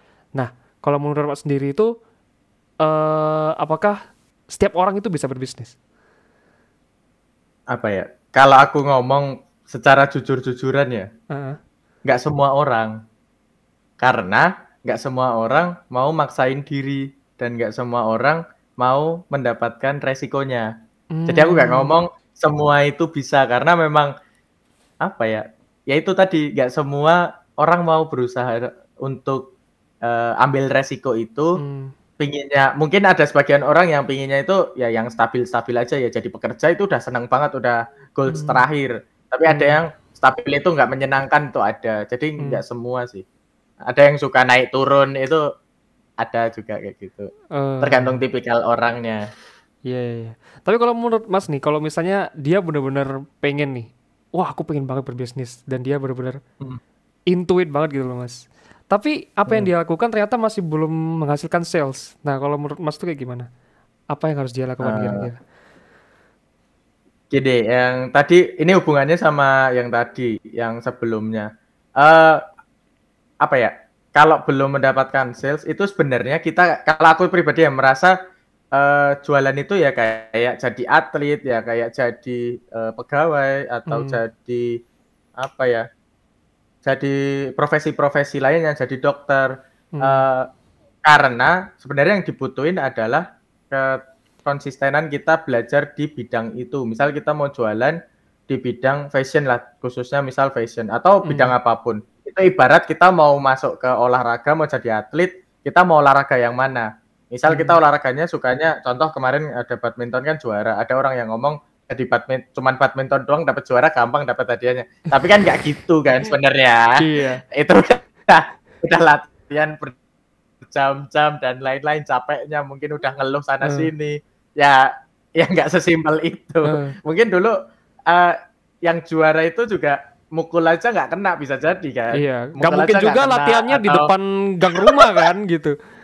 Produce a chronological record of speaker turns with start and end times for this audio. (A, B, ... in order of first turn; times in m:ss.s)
0:00.4-0:01.9 A
0:02.8-0:04.0 A
0:04.5-0:05.7 A
0:07.7-0:11.1 B
0:11.3-0:11.6 A
0:12.0-0:13.0 B
0:14.0-0:20.7 B
0:21.1-0:21.9 A
0:21.3-0:24.1 B
0:25.0-0:31.5 B
0:31.6-0:31.9 A
0:32.2-0:43.2 B
0:38.3-0:38.6 A
0:39.5-0:39.8 A
0:43.9-0:45.4 B
0:46.2-0:47.3 B
0:47.5-0:48.2 A
0:47.8-0:49.2 B
0:49.9-0:56.4 A
0:57.3-1:03.5 A
1:04.1-1:05.4 A
1:04.8-1:05.3 B
1:07.3-1:11.5 B
1:12.0-1:12.4 B
1:13.4-1:18.1 B
1:18.8-1:24.7 B
1:23.9-1:24.2 A
1:25.4-1:25.8 B
1:26.8-1:30.5 B
1:29.9-1:30.2 A
1:31.0-1:38.0 B
1:38.5-1:57.0 B
1:41.2-1:41.6 A
1:47.5-1:47.8 A
1:57.0-1:57.4 A
1:57.5-2:00.0 B
2:00.6-2:07.5 B
2:03.6-2:03.9 A
2:06.6-2:07.0 A
2:08.1-2:14.1 B
2:12.1-2:15.7 A
2:14.7-2:15.2 B